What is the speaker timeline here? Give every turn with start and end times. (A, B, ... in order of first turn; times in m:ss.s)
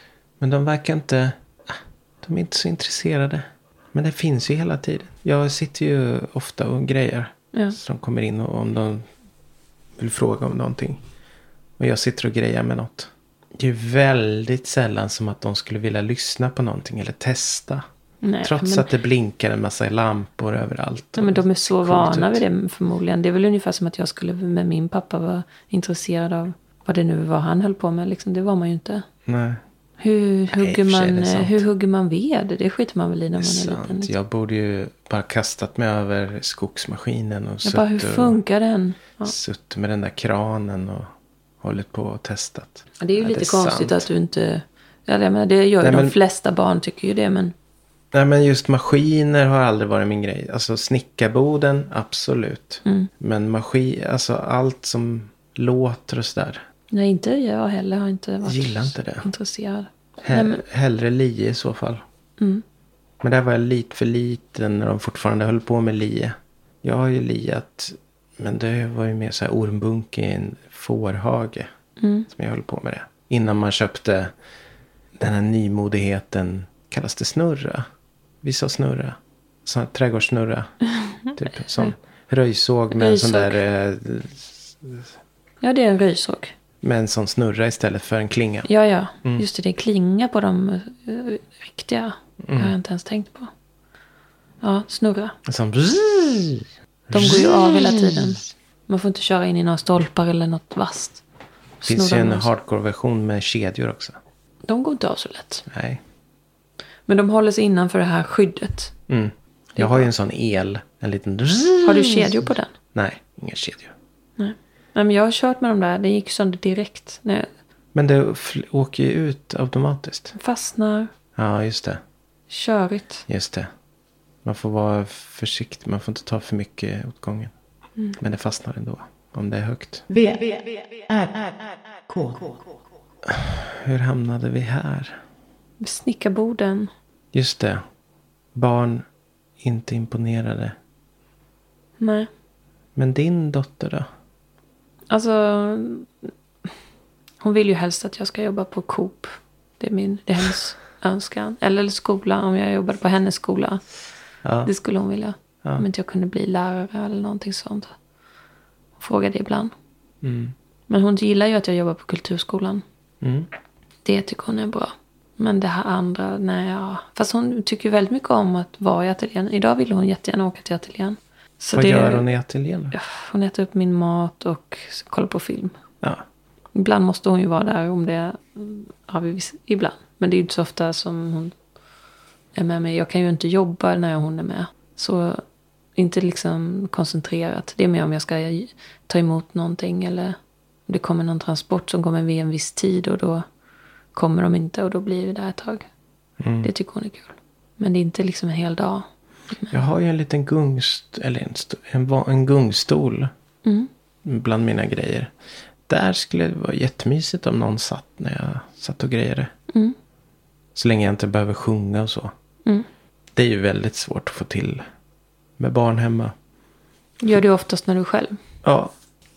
0:00.4-0:09.0 A
0:10.0-0:11.0 A
0:11.8-0:17.8 A
0:18.2-0:18.9 B
0:18.4-0:22.4 A
0:21.2-0:29.0 B
0:29.2-0:29.6 A
0:30.0-0:34.1 B
0:30.5-0:31.6 A
0:33.4-0:38.4 A
0:37.6-0:39.3 B
0:39.2-0:41.1 A
0:41.6-0:44.0 A
0:43.0-0:47.5 B
0:45.8-0:46.2 A
0:48.1-0:56.6 A
0:52.8-0:53.1 B
0:56.9-1:00.6 B
0:58.4-0:59.3 A
1:00.2-1:02.0 A
1:03.2-1:11.7 A
1:12.0-1:12.3 B
1:12.3-1:14.3 A
1:15.2-1:17.8 A
1:18.4-1:20.7 A
1:21.0-1:21.9 B
1:21.3-1:25.0 A
1:22.9-1:23.6 B
1:25.6-1:26.5 B
1:26.8-1:28.7 A
1:28.6-1:33.5 B
1:32.4-1:32.7 A
1:34.6-1:35.4 B
1:35.4-1:38.4 A
1:37.1-1:41.2 B
1:41.8-1:42.5 B
1:41.8-1:44.2 A
1:44.7-1:45.6 B
1:45.7-1:46.0 A
1:47.1-1:48.9 B
1:49.1-1:53.9 A
1:49.8-1:50.1 B
1:51.8-1:52.7 B
1:54.4-1:57.5 B
1:57.9-2:00.4 A
2:00.4-2:01.1 B
2:01.4-2:02.0 A
2:02.5-2:03.2 B
2:03.3-2:03.7 A
2:04.4-2:07.5 A
2:08.2-2:10.0 A
2:10.1-2:12.6 C
2:13.2-2:15.2 A
2:15.8-2:16.9 B
2:17.3-2:17.8 A
2:18.5-2:19.1 A
2:19.6-2:20.7 A
2:22.0-2:22.3 B
2:23.0-2:24.1 A
2:25.1-2:26.3 B
2:27.4-2:33.8 B
2:34.4-2:34.7 A
2:34.6-2:37.9 B
2:39.0-2:39.7 B
2:40.2-2:40.5 A
2:40.9-2:42.8 B
2:43.2-2:43.5 A
2:44.0-2:52.3 B
2:51.7-2:52.9 A
2:52.9-2:55.8 B
2:56.7-3:01.5 B
3:02.5-3:05.4 B
3:06.0-3:13.4 B
3:14.1-3:15.9 B
3:16.4-3:16.7 A
3:16.6-3:19.7 B
3:19.7-3:23.3 A
3:24.2-3:25.3 A
3:25.9-3:29.5 A
3:29.7-3:30.0 B
3:30.7-3:32.3 A
3:33.4-3:34.8 A
3:35.6-3:36.3 A
3:37.2-3:38.4 B
3:38.6-3:38.9 A